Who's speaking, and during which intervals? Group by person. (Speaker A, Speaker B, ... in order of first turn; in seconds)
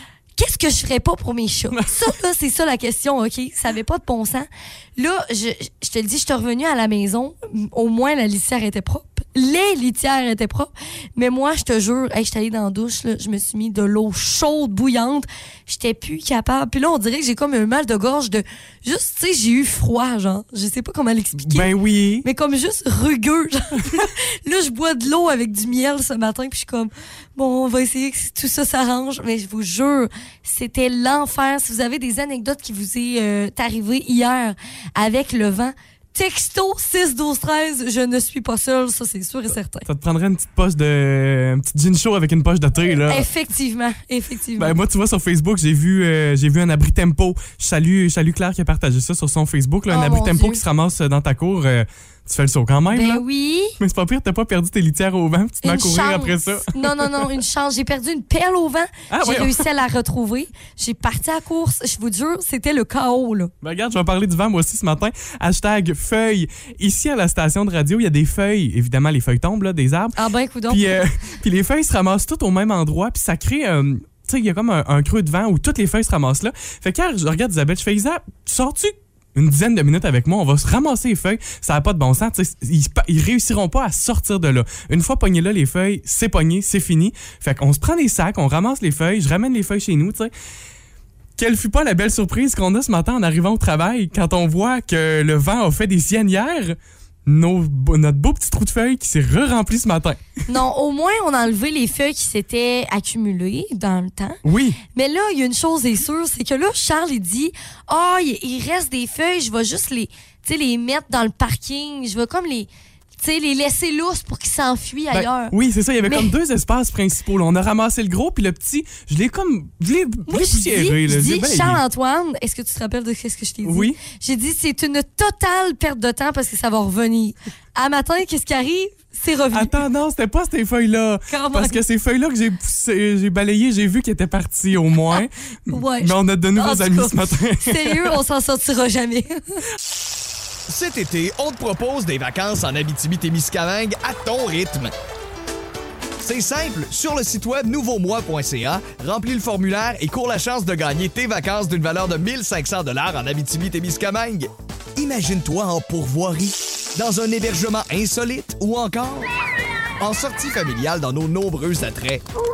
Speaker A: 0.4-21.7, 22.2-39.9, 43.0-44.8, 49.9-50.6, 52.9-53.8, 55.6-63.5, 70.2-70.9, 100.5-104.4, 104.9-116.3, 120.3-129.7, 131.3-131.8, 135.7-139.6
Speaker B: 21.4-22.3, 39.9-43.3, 44.6-53.2, 53.8-57.4, 59.1-59.7, 63.6-70.2, 70.7-90.3, 91.4-100.2, 104.4-104.8, 115.1-121.8, 123.7-124.0, 129.5-138.2
Speaker C: 140.7-144.9, 146.2-159.3, 160.0-162.2